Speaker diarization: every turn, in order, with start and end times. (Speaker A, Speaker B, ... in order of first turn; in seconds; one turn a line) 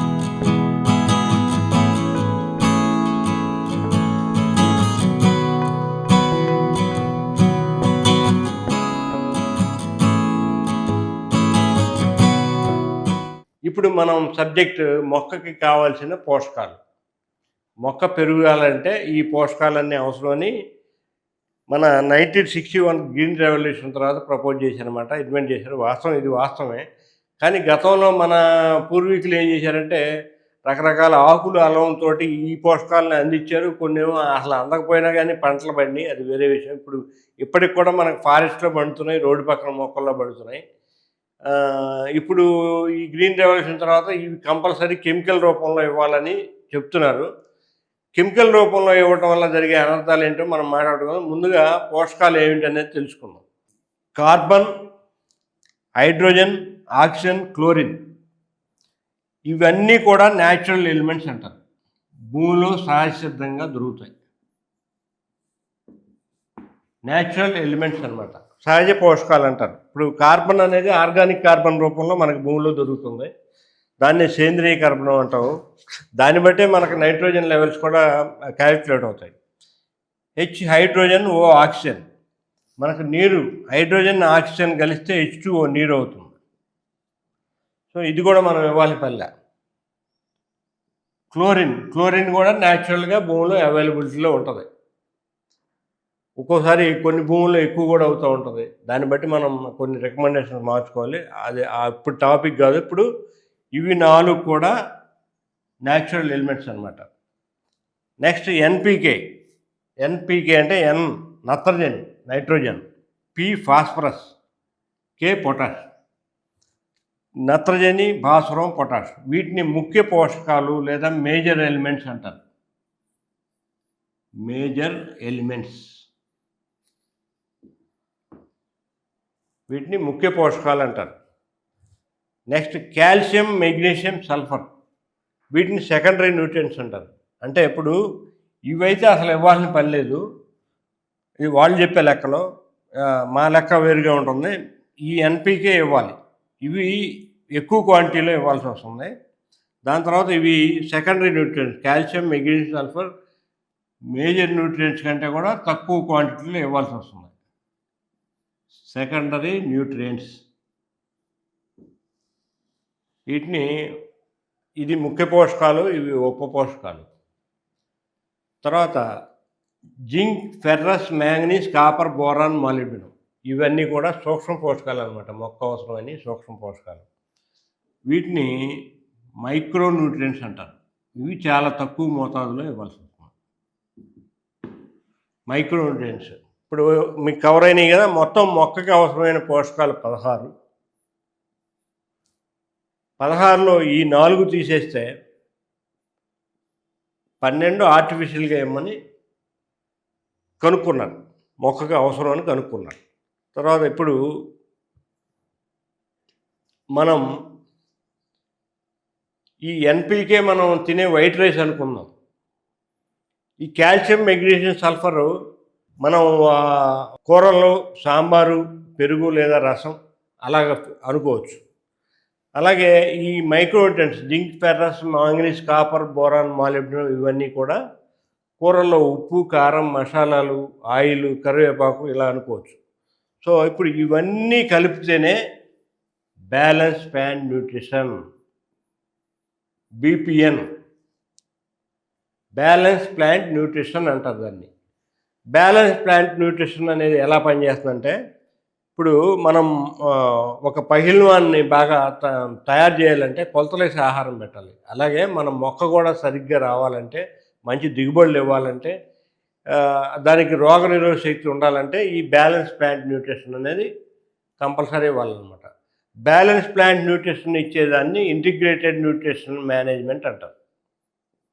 Speaker A: 13.7-16.8
Speaker A: 17.9-20.5
Speaker A: 21.7-26.9
Speaker A: 27.4-30.0
Speaker A: 30.7-40.6
Speaker A: 41.5-42.5
Speaker A: 43.0-47.3
Speaker A: 48.1-53.4
Speaker A: 54.2-54.7
Speaker A: 56.0-58.0
Speaker A: 59.5-61.6
Speaker A: 62.3-64.1
Speaker A: 67.1-73.3
Speaker A: 74.0-75.5
Speaker A: 76.2-78.0
Speaker A: 78.6-79.4
Speaker A: 80.4-82.1
Speaker A: 82.8-86.3
Speaker A: 87.9-89.3
Speaker A: 91.3-94.7
Speaker A: 96.4-103.1
Speaker A: 103.8-104.8
Speaker A: 105.9-107.1
Speaker A: 108.2-109.2
Speaker A: 110.0-114.3
Speaker A: 115.2-115.9
Speaker A: 117.5-122.4
Speaker A: 124.5-125.9
Speaker A: 129.7-131.2
Speaker A: 132.5-134.7
Speaker A: 135.6-137.9
Speaker A: 138.7-140.2
Speaker A: 141.5-142.4
Speaker A: 143.3-144.5
Speaker A: 145.1-146.9
Speaker A: 147.6-149.1
Speaker A: 149.9-153.1
Speaker A: 154.2-157.3
Speaker A: 158.9-160.4
Speaker A: 163.3-163.7
Speaker A: 164.8-167.1
Speaker A: 168.6-169.0
Speaker A: 170.1-177.1
Speaker A: 178.1-178.8
Speaker A: 179.4-183.3
Speaker A: 185.5-190.5
Speaker A: 193.2-195.1
Speaker A: 197.4-198.9
Speaker A: 200.6-203.0
Speaker A: 203.6-204.2
Speaker A: 207.0-207.2
Speaker A: 209.7-212.1
Speaker A: 213.6-215.3
Speaker A: 216.1-221.6
Speaker A: 222.6-227.8
Speaker A: 228.6-232.8
Speaker A: 233.4-235.4
Speaker A: 236.5-238.2
Speaker A: 240.0-240.7
Speaker A: 242.6-244.7
Speaker A: 245.6-248.2
Speaker A: 249.0-258.9
Speaker A: 259.8-263.9
Speaker A: 264.6-265.7
Speaker A: 266.3-270.5